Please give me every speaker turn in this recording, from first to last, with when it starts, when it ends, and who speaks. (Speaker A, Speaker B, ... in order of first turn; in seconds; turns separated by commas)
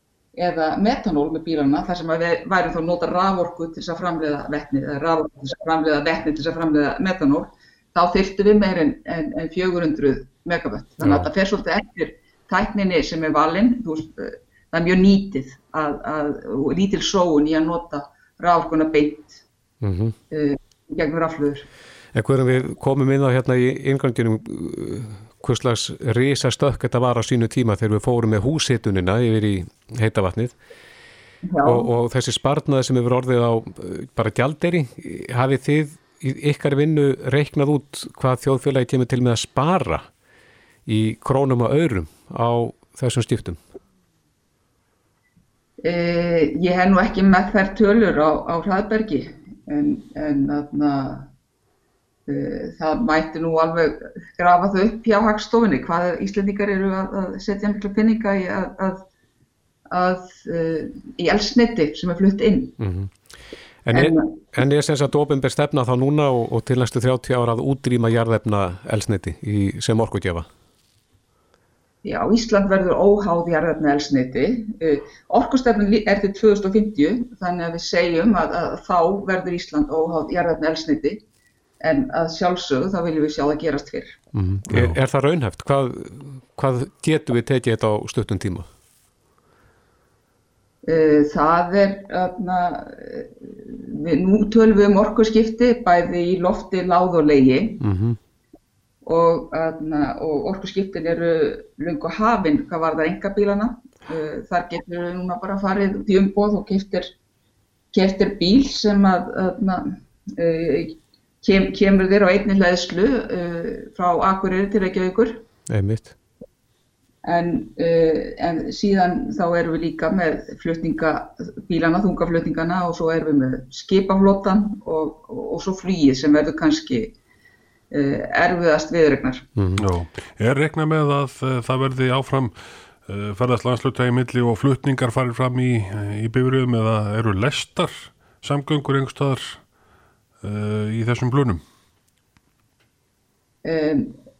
Speaker A: 0.3-19.4, Speaker B: 19.8-20.1, Speaker A: 20.3-21.6, Speaker B: 22.1-30.5, Speaker A: 31.4-31.9, Speaker B: 31.6-40.1, Speaker B: 40.9-43.6, Speaker A: 45.8-51.3, Speaker A: 52.3-59.1, Speaker A: 59.9-62.8, Speaker B: 62.8-63.1, Speaker B: 63.8-70.5, Speaker A: 63.9-64.3, Speaker A: 72.0-81.2, Speaker A: 81.8-84.2, Speaker B: 84.3-88.7, Speaker C: 84.7-85.0, Speaker A: 90.8-97.8, Speaker B: 97.8-98.2, Speaker A: 99.0-107.1, Speaker A: 107.9-115.4, Speaker B: 115.7-116.1, Speaker A: 117.2-127.1, Speaker A: 127.9-129.5, Speaker B: 129.5-129.8, Speaker C: 129.8-139.7, Speaker C: 140.4-141.6, Speaker A: 143.6-144.2